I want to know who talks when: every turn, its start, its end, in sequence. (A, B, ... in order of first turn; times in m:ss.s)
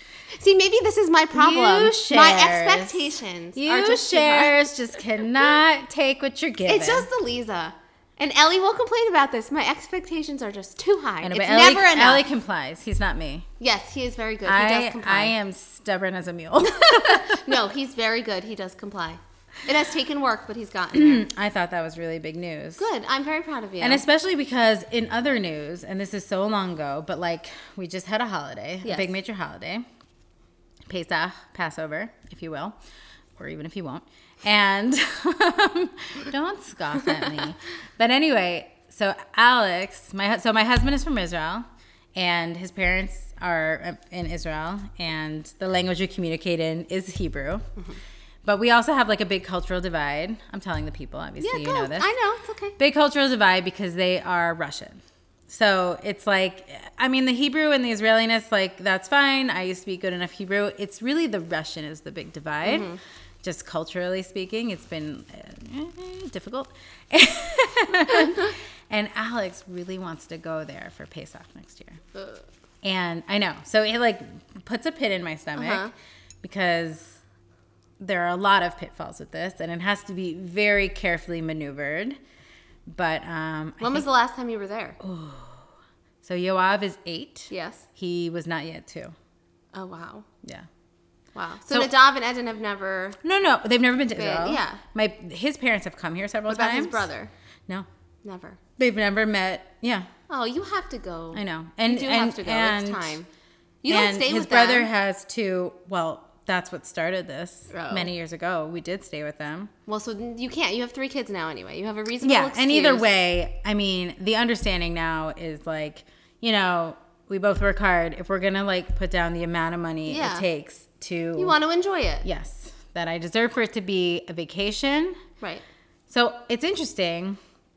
0:00.3-0:04.5 A
0:01.3-0:07.1 B
0:06.7-0:12.2 A
0:11.2-0:13.5 B
0:13.6-0:15.4 A
0:14.4-0:17.5 B
0:16.6-0:21.3 A
0:20.9-0:22.9 B
0:22.8-0:24.0 A
0:23.8-0:29.8 B
0:28.8-0:29.1 A
0:30.9-0:32.8 B
0:33.4-0:47.6 B
0:48.4-0:52.1 B
0:51.4-0:52.8 A
0:52.8-1:02.9 B
1:02.6-1:03.0 A
1:03.4-1:12.0 B
1:08.1-1:08.4 A
1:12.1-1:12.4 A
1:12.8-1:15.9 B
1:15.6-1:15.9 A
1:16.4-1:17.2 B
1:18.0-1:22.2 B
1:22.9-1:24.0 B
1:23.8-1:25.0 A
1:25.0-1:25.7 B
1:26.2-1:29.1 B
1:27.5-1:27.8 A
1:29.7-1:30.3 A
1:31.3-1:33.2 A
1:33.2-1:37.1 B
1:34.1-1:34.8 A
1:36.5-1:37.3 A
1:38.2-1:38.6 A
1:38.8-1:40.1 B
1:40.3-1:43.3 A
1:41.3-1:43.1 B
1:43.8-1:44.9 A
1:43.9-1:49.7 B
1:47.7-1:48.1 A
1:49.9-1:53.1 A
1:52.2-2:01.6 B
2:00.1-2:00.4 A
2:01.4-2:02.2 A
2:02.2-2:05.2 B
2:06.1-2:07.4 B